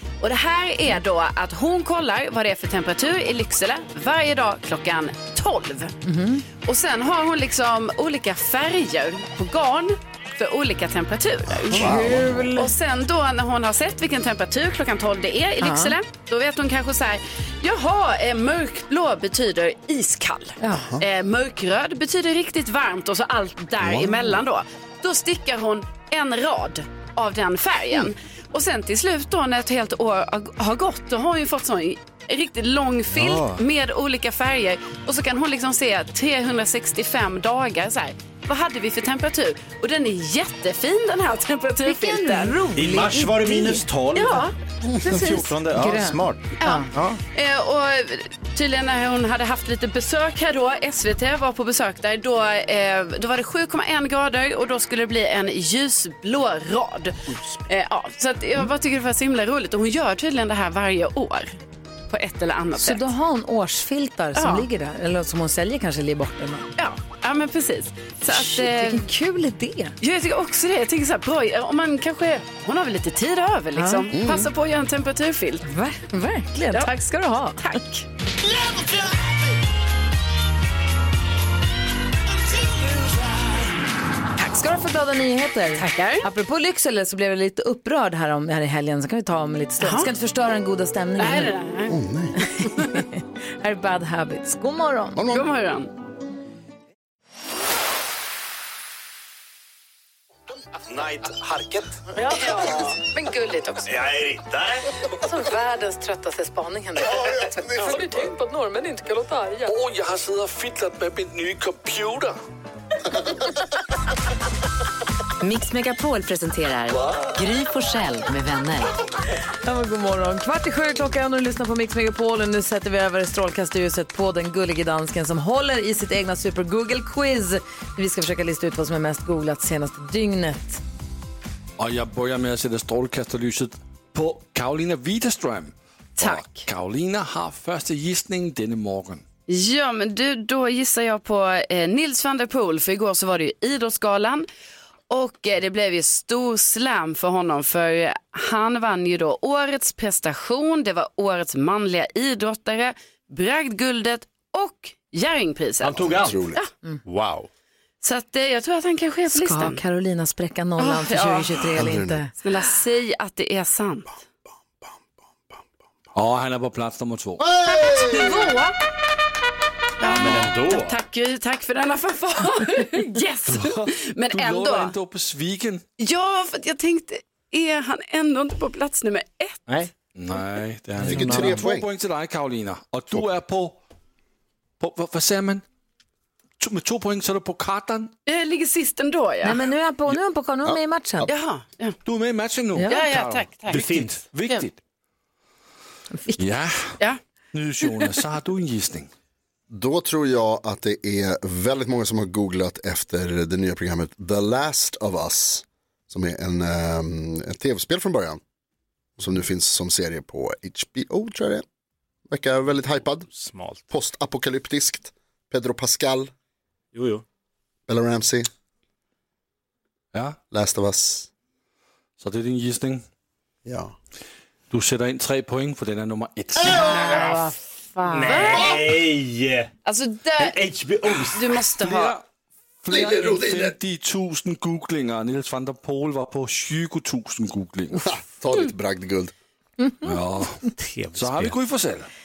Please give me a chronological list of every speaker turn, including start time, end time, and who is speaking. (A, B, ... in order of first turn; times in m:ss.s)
0:00.2-0:06.0 A
0:06.0-0:06.4 B
0:06.6-0:11.9 A
0:11.5-0:12.5 C
0:11.7-0:12.7 B
0:12.6-0:42.6 A
0:15.6-0:16.0 B
0:20.6-0:20.9 B
0:20.7-0:21.0 C
0:23.8-0:24.2 C
0:33.1-0:33.6 D
0:41.8-0:43.8 B
0:42.7-0:44.4 E
0:44.1-0:44.5 A
0:44.9-0:45.2 C
0:45.0-0:47.2 E
0:45.1-0:46.9 B
0:46.6-1:01.5 A
1:02.1-1:03.0 A
1:02.8-1:06.6 B
1:04.3-1:04.7 A
1:06.8-1:09.1 A
1:08.3-1:09.9 B
1:10.0-1:15.6 A
1:13.8-1:14.1 B
1:14.1-1:14.5 C
1:15.6-1:17.8 B
1:17.6-1:18.0 A
1:24.4-1:31.5 B
1:25.8-1:26.2 A
1:29.8-1:30.1 A
1:31.2-1:32.0 A
1:31.9-1:32.4 C
1:32.6-1:32.9 A
1:32.6-1:35.2 B
1:35.2-1:35.4 C
1:35.3-1:35.9 A
1:40.9-1:42.0 E
1:42.2-1:44.1 B
1:43.8-1:44.9 E
1:45.1-1:49.7 B
1:49.6-1:52.4 D
1:55.4-1:58.9 F
1:59.6-2:10.8 B
2:11.8-2:19.2 D
2:16.2-2:16.6 A
2:19.5-2:24.5 A
2:25.1-2:36.7 A
2:35.8-2:36.5 E
2:36.1-2:36.6 C
2:37.1-2:37.5 E
2:38.0-2:39.8 A
2:39.3-2:42.3 B
2:40.8-2:41.9 A
2:41.8-2:42.2 C
2:42.4-2:44.2 A
2:46.1-2:47.4 D
2:47.4-2:48.6 C
2:47.6-2:48.7 A
2:50.0-2:54.9 A
2:50.0-2:51.0 E
2:53.5-2:55.8 D
2:56.0-2:59.6 A
3:00.1-3:03.8 D
3:01.0-3:01.6 E
3:01.0-3:01.9 C
3:04.8-3:05.6 D
3:06.6-3:08.1 D
3:08.2-3:09.6 A
3:09.4-3:11.3 B
3:10.6-3:11.3 C
3:11.3-3:12.0 A
3:12.0-3:14.8 D
3:12.9-3:14.0 A
3:13.7-3:14.2 E
3:16.1-3:16.4 B
3:16.4-3:16.9 D
3:17.5-3:19.1 D
3:19.7-3:28.4 C
3:29.2-3:31.6 C
3:32.3-3:33.3 C
3:33.3-3:33.8 E
3:33.9-3:36.3 C
3:36.9-3:37.2 E
3:37.9-3:38.5 C
3:40.5-3:41.3 C
3:42.2-3:43.0 D
3:43.6-3:43.9 C
3:44.7-3:46.8 D
3:46.7-3:48.5 B
3:46.8-3:47.4 E
3:46.8-3:47.2 A
3:48.1-3:49.7 E
3:48.2-3:48.8 A
3:49.8-3:50.6 A
3:50.4-3:51.5 E
3:51.2-3:52.1 A
3:51.6-3:52.2 D
3:52.8-3:58.1 D
3:52.9-3:53.8 C
3:58.0-3:59.3 C
4:00.0-4:02.1 D
4:00.7-4:01.6 E